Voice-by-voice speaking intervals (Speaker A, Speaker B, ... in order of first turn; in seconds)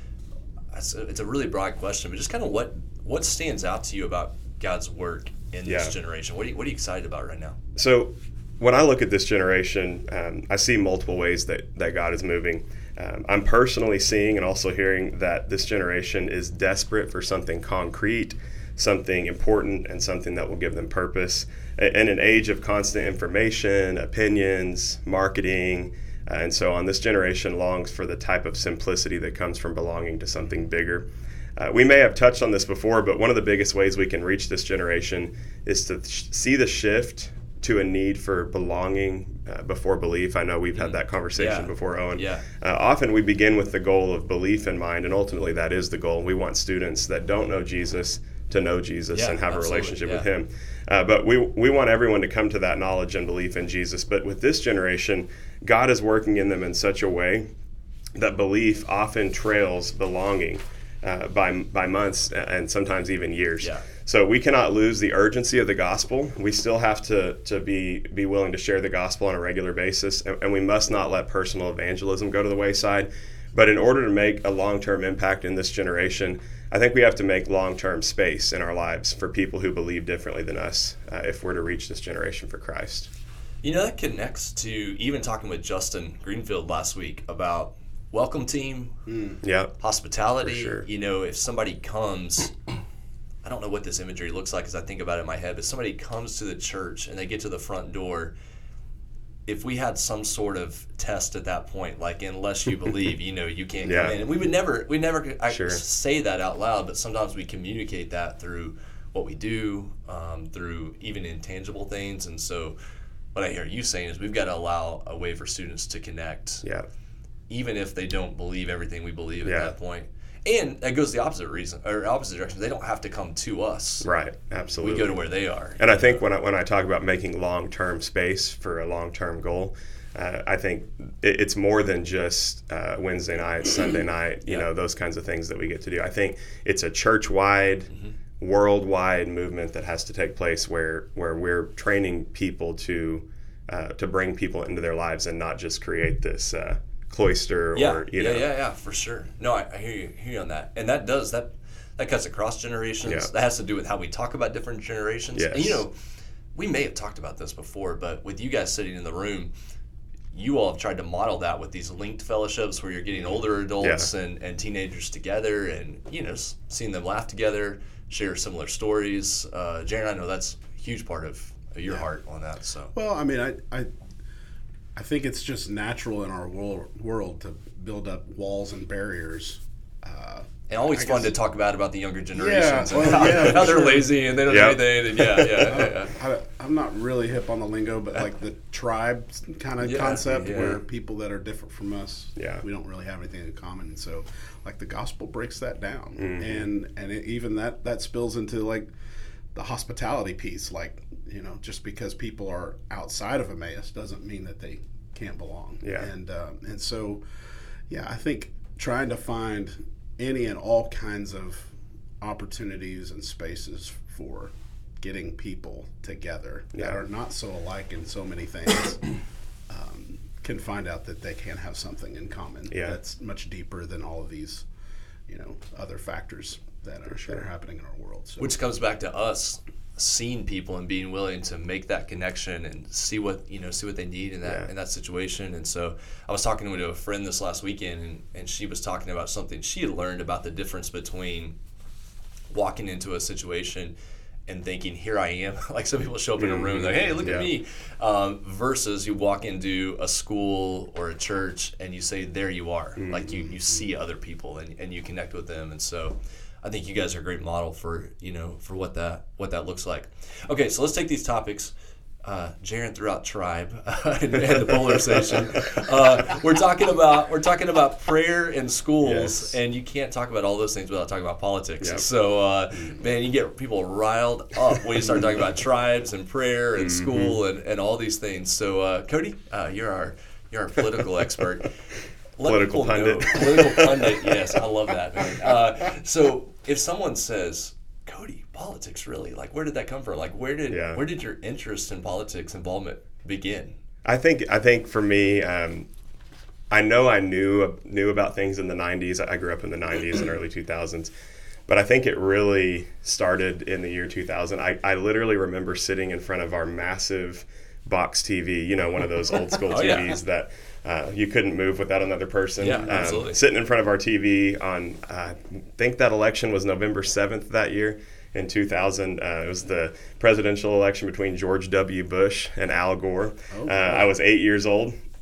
Speaker A: 0.7-7.6, 40.8-42.5, 49.1-50.3, 63.6-63.9, 83.6-89.0, 89.8-92.5, 93.4-98.3, 99.5-112.8, 113.3-116.7, 117.5-124.1, 124.8-126.2, 147.8-155.9, 156.6-159.5, 160.3-172.9, 180.7-186.1, 189.8-190.8, 228.4-241.6, 242.5-243.9, 244.5-261.7, 262.2-281.7, 282.4-293.8, 309.7-310.1, 312.6-313.4
Speaker B: 5.7-6.0, 7.8-57.5, 58.2-83.1, 89.4-89.8, 90.4-90.8, 103.8-104.2, 105.5-105.8, 119.4-119.7, 124.0-125.2, 125.8-148.5, 155.4-155.8, 163.8-164.1, 184.5-185.5, 192.4-192.6, 196.2-196.7, 205.8-206.1, 216.8-217.0, 222.7-223.0, 246.4-247.5, 253.0-253.5, 269.0-269.6, 276.8-277.4, 282.4-284.4, 290.7-291.0, 294.1-295.9, 296.7-301.1, 301.7-325.0
Speaker C: 89.1-89.4, 172.9-173.9, 174.9-181.4, 182.3-184.1, 185.6-198.9, 199.5-207.2, 207.9-219.1, 219.7-224.7, 225.3-228.5, 323.5-324.1